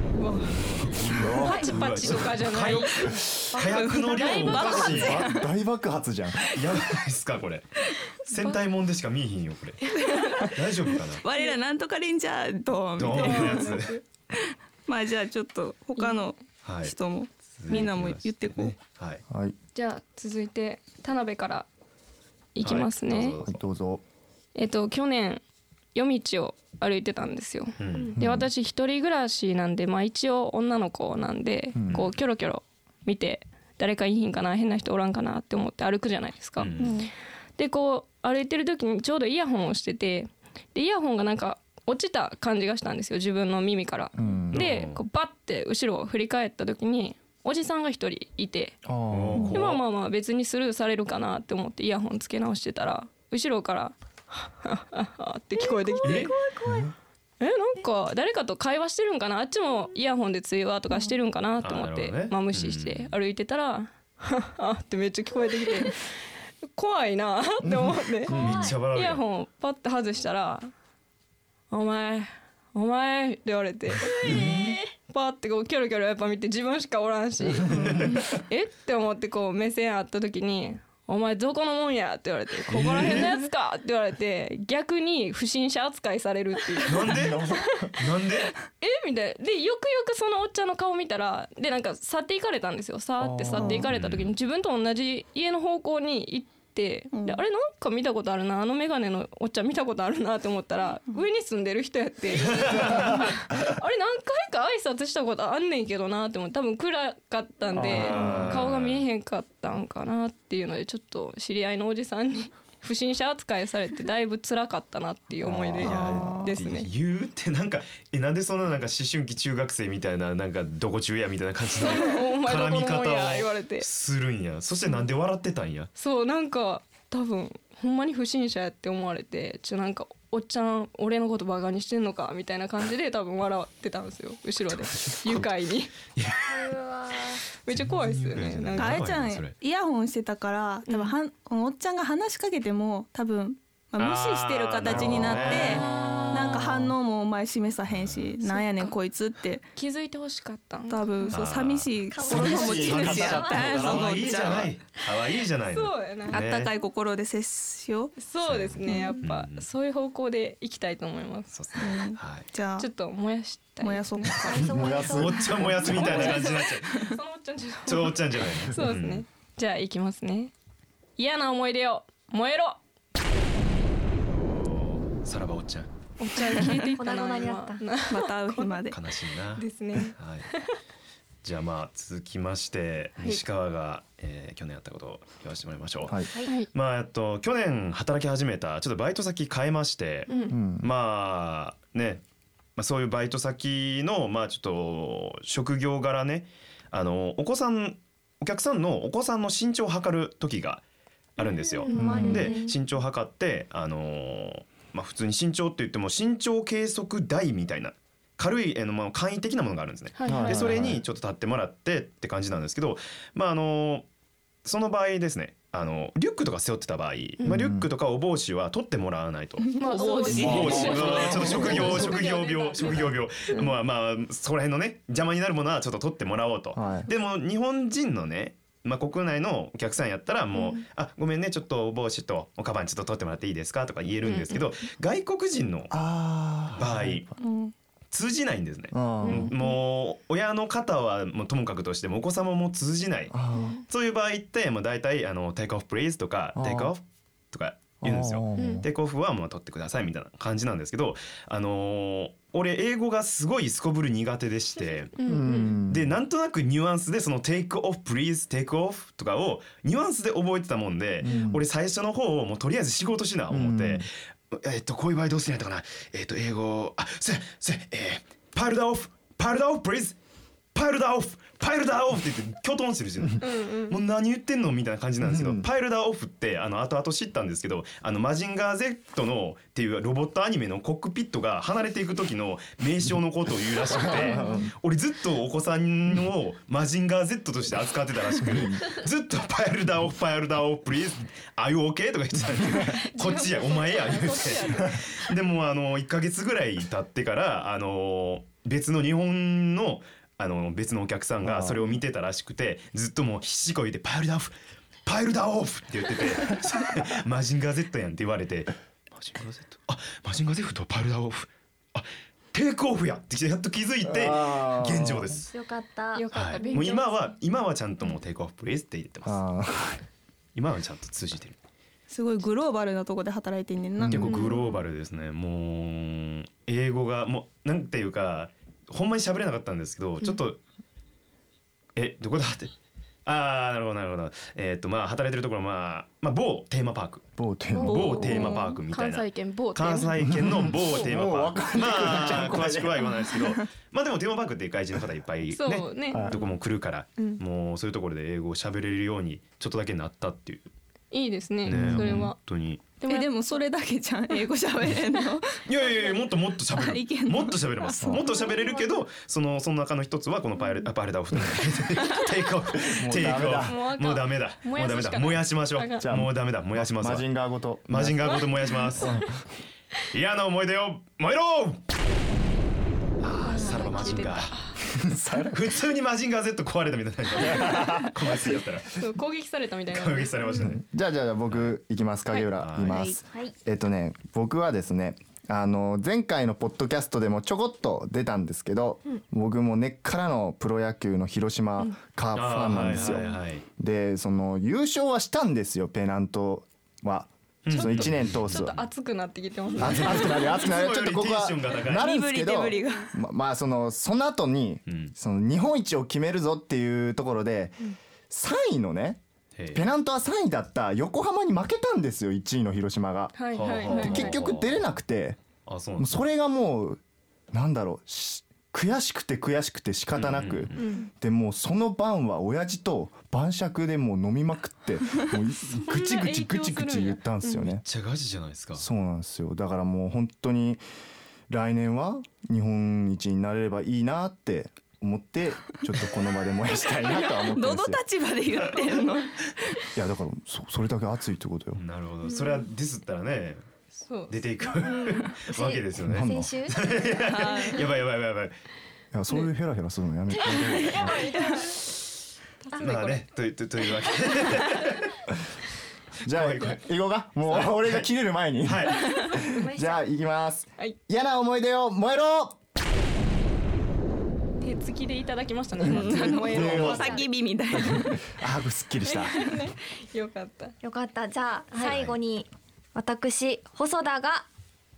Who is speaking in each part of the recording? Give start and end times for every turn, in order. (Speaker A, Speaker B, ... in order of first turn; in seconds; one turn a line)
Speaker A: 0.1-5.2
Speaker B: 0.6-5.3
Speaker C: 1.2-1.8
Speaker D: 3.7-5.3
Speaker C: 4.5-6.8
Speaker B: 6.5-9.8
Speaker A: 8.3-8.6
Speaker D: 9.8-10.6
Speaker A: 10.0-10.4
Speaker B: 10.4-11.2
Speaker D: 11.2-13.8
Speaker B: 13.0-14.0
Speaker A: 13.1-14.0
Speaker D: 14.3-18.8
Speaker B: 16.6-16.9
Speaker B: 17.6-19.2
Speaker C: 19.3-19.6
Speaker A: 19.8-21.7
Speaker A: 22.6-23.4
Speaker B: 22.6-23.6
Speaker C: 23.4-24.0
Speaker A: 24.6-25.4
Speaker A: 25.9-36.9
Speaker B: 27.8-28.1
Speaker E: 27.9-28.2
Speaker C: 28.2-28.5
Speaker C: 31.8-32.1
Speaker B: 31.9-32.2
Speaker B: 36.6-37.0
Speaker D: 36.8-37.1
Speaker A: 37.6-48.8
Speaker C: 44.2-44.6
Speaker B: 44.5-45.0
Speaker C: 48.8-49.6
Speaker B: 49.1-49.8
Speaker A: 49.5-56.3
Speaker E: 55.5-56.9
Speaker B: 56.0-56.3
Speaker C: 56.6-56.9
Speaker A: 57.4-66.0
Speaker B: 61.6-63.1
Speaker A: 66.8-70.7
Speaker C: 67.6-68.6
Speaker B: 68.3-69.2
Speaker E: 68.3-68.8
Speaker A: 71.7-87.1
Speaker E: 74.1-74.8
Speaker B: 74.2-74.8
Speaker C: 77.7-78.2
Speaker B: 77.8-78.1
Speaker B: 82.7-83.3
Speaker B: 86.9-88.5
Speaker C: 87.0-87.9
Speaker A: 88.8-116.9
Speaker C: 93.2-93.9
Speaker B: 93.9-94.3
Speaker D: 97.1-97.4
Speaker B: 102.4-103.2
Speaker C: 107.7-108.6
Speaker B: 107.8-109.1
Speaker C: 115.4-116.4
Speaker B: 115.8-125.9
Speaker D: 115.9-116.5
Speaker A: 121.8-123.9
Speaker A: 126.0-135.9
Speaker B: 134.8-135.5
Speaker B: 136.2-136.8
Speaker E: 136.5-137.4
Speaker A: 137.7-139.0
Speaker B: 137.8-139.6
Speaker D: 138.8-149.6
Speaker A: 140.9-141.2
Speaker B: 144.0-145.9
Speaker A: 145.4-146.8
Speaker B: 147.9-148.3
Speaker A: 148.4-148.9
Speaker A: 149.8-151.4
Speaker D: 150.9-154.7
Speaker B: 151.3-156.7
Speaker E: 152.1-154.0
Speaker C: 152.3-154.3
Speaker A: 155.7-156.4
Speaker D: 156.3-158.2
Speaker A: 158.2-162.0
Speaker B: 158.4-159.7
Speaker D: 158.9-159.2
Speaker B: 161.5-162.5
Speaker D: 161.8-162.9
Speaker A: 162.8-164.4
Speaker D: 163.8-164.7
Speaker E: 164.4-166.3
Speaker C: 164.6-165.6
Speaker B: 164.9-167.1
Speaker A: 165.8-170.5
Speaker D: 166.9-167.2
Speaker B: 167.9-169.2
Speaker A: 171.2-172.8
Speaker B: 174.3-175.9
Speaker A: 176.2-178.8
Speaker D: 176.6-176.9
Speaker E: 176.9-177.8
Speaker D: 178.1-179.0
Speaker B: 178.9-180.5
Speaker A: 179.6-180.8
Speaker B: 181.4-190.3
Speaker C: 186.1-186.3
Speaker A: 186.4-186.7
Speaker A: 190.3-190.6
Speaker C: 190.5-190.9
Speaker B: 190.8-192.2
Speaker B: 192.8-200.8
Speaker B: 201.4-214.1
Speaker A: 201.4-202.7
Speaker E: 201.8-202.7
Speaker C: 201.9-202.5
Speaker A: 210.2-210.8
Speaker C: 210.3-211.0
Speaker B: 214.6-219.8
Speaker C: 217.4-217.9
Speaker D: 219.6-221.3
Speaker A: 219.8-223.6
Speaker C: 220.3-222.2
Speaker B: 220.3-235.9
Speaker C: 226.8-227.1
Speaker A: 234.2-234.6
Speaker C: 235.9-237.3
Speaker B: 236.8-237.3
Speaker D: 237.4-237.7
Speaker B: 238.1-243.3
Speaker C: 238.9-239.5
Speaker A: 239.2-239.7
Speaker C: 243.3-243.8
Speaker A: 243.5-243.8
Speaker B: 243.9-255.1
Speaker C: 246.6-246.9
Speaker C: 248.0-248.9
Speaker A: 248.6-248.8
Speaker A: 255.2-255.8
Speaker C: 255.2-256.1
Speaker B: 255.9-270.2
Speaker C: 261.2-261.6
Speaker C: 263.5-264.1
Speaker B: 270.7-304.5
Speaker A: 273.4-274.0
Speaker C: 275.2-275.7
Speaker C: 283.9-284.7
Speaker C: 288.5-288.9
Speaker A: 293.1-295.0
Speaker C: 301.4-301.8
Speaker B: 305.1-315.5
Speaker C: 314.0-315.4
Speaker E: 315.5-316.9
Speaker A: 316.1-317.3
Speaker B: 316.3-319.4
Speaker C: 319.2-320.0
Speaker B: 320.6-321.6
Speaker D: 322.1-324.6
Speaker C: 324.0-324.3
Speaker B: 324.1-330.6
Speaker A: 324.3-324.8
Speaker B: 332.0-337.3
Speaker C: 337.4-338.6
Speaker A: 337.7-340.1
Speaker B: 337.9-350.7
Speaker D: 338.0-338.6
Speaker C: 340.2-343.0
Speaker A: 345.5-346.5
Speaker C: 346.1-346.4
Speaker A: 351.1-352.4
Speaker C: 351.6-352.3
Speaker B: 351.6-352.9
Speaker A: 353.0-353.6
Speaker D: 353.0-356.1
Speaker B: 355.7-367.3
Speaker D: 356.7-358.0
Speaker C: 358.0-358.3
Speaker C: 362.8-363.8
Speaker A: 363.3-366.1
Speaker C: 366.0-368.5
Speaker B: 367.9-369.2
Speaker A: 368.3-369.2
Speaker C: 369.0-369.4
Speaker B: 370.1-371.8
Speaker B: 373.2-374.6
Speaker A: 373.4-374.8
Speaker C: 374.9-375.8
Speaker B: 375.5-379.0
Speaker C: 377.4-378.6
Speaker A: 377.5-377.8
Speaker A: 378.9-380.4
Speaker B: 379.9-380.8
Speaker C: 380.6-398.8
Speaker B: 381.5-381.8
Speaker B: 382.6-383.0
Speaker D: 382.9-383.2
Speaker B: 392.3-393.6
Speaker B: 397.6-398.7
Speaker A: 397.7-400.6
Speaker B: 399.8-402.1
Speaker C: 399.8-409.2
Speaker D: 402.0-403.1
Speaker B: 404.9-405.1
Speaker B: 409.6-409.9
Speaker C: 409.7-415.4
Speaker A: 413.4-414.4
Speaker B: 413.5-414.8
Speaker B: 415.7-416.1
Speaker C: 416.0-417.0
Speaker C: 417.5-427.8
Speaker B: 420.1-420.8
Speaker A: 420.8-421.1
Speaker A: 425.7-427.7
Speaker B: 427.8-428.9
Speaker C: 428.8-430.8
Speaker C: 431.5-438.0
Speaker D: 436.9-439.8
Speaker C: 440.0-441.8
Speaker B: 441.8-443.6
Speaker A: 442.3-442.6
Speaker A: 444.0-444.9
Speaker B: 444.3-448.6
Speaker E: 444.8-447.1
Speaker C: 446.1-446.5
Speaker D: 447.3-447.8
Speaker C: 449.1-451.3
Speaker A: 450.4-451.8
Speaker E: 451.0-451.7
Speaker A: 452.6-453.3
Speaker B: 452.8-455.2
Speaker A: 454.4-454.8
Speaker C: 456.2-462.6
Speaker B: 456.2-456.9
Speaker B: 457.4-458.1
Speaker B: 458.6-459.2
Speaker A: 459.1-459.4
Speaker E: 459.4-460.0
Speaker A: 464.6-467.2
Speaker C: 465.8-467.2
Speaker D: 465.9-468.2
Speaker C: 467.7-469.5
Speaker A: 469.0-470.8
Speaker E: 470.8-474.5
Speaker A: 471.7-472.0
Speaker B: 471.8-472.2